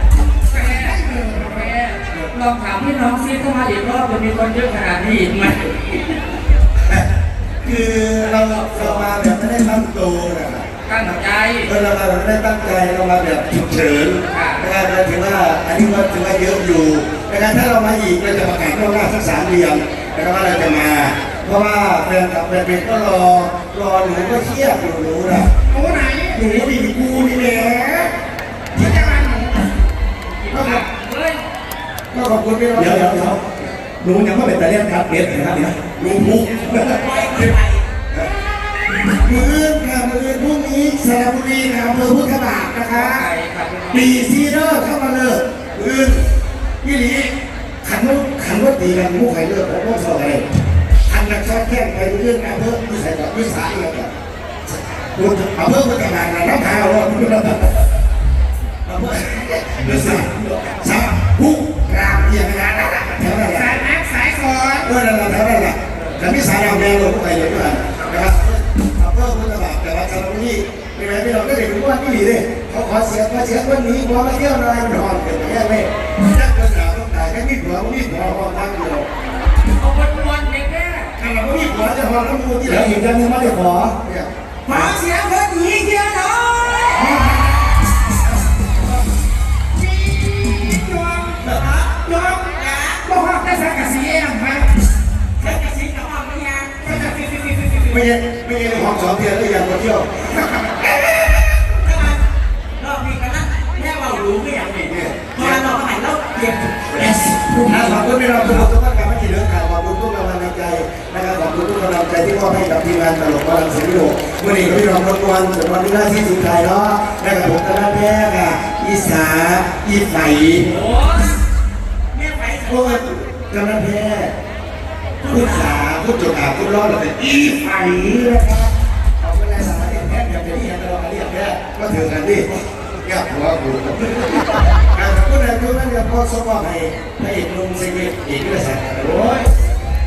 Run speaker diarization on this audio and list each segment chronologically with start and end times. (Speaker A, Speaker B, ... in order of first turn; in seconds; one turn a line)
Speaker A: 0.5-1.0
Speaker B: 0.5-1.7
Speaker A: 1.5-6.0
Speaker C: 7.6-10.7
Speaker A: 8.2-9.1
Speaker A: 10.9-11.7
Speaker C: 11.7-25.5
Speaker A: 14.3-14.6
Speaker B: 25.7-26.4
Speaker C: 26.3-28.1
Speaker B: 28.7-29.7
Speaker A: 30.2-31.4
Speaker C: 30.5-30.8
Speaker C: 32.1-33.4
Speaker D: 32.7-33.4
Speaker D: 34.0-36.0
Speaker C: 35.9-37.1
Speaker E: 36.7-37.8
Speaker D: 36.7-37.0
Speaker C: 39.1-43.3
Speaker A: 42.9-44.2
Speaker C: 43.9-46.2
Speaker C: 46.8-50.5
Speaker C: 51.1-54.1
Speaker C: 55.1-57.8
Speaker C: 58.9-63.8
Speaker D: 60.0-60.6
Speaker B: 63.5-64.9
Speaker C: 64.8-79.1
Speaker A: 79.8-81.1
Speaker C: 81.2-83.1
Speaker D: 82.6-84.0
Speaker C: 84.0-84.3
Speaker E: 84.7-87.3
Speaker B: 89.7-92.5
Speaker E: 91.5-93.0
Speaker B: 93.0-94.7
Speaker E: 95.4-98.1
Speaker C: 97.9-100.2
Speaker B: 100.3-101.1
Speaker E: 101.7-102.2
Speaker E: 102.8-107.0
Speaker C: 104.9-105.6
Speaker C: 107.0-120.7
Speaker E: 120.7-121.4
Speaker E: 122.1-123.0
Speaker C: 122.7-124.3
Speaker E: 125.2-125.8
Speaker C: 125.3-139.4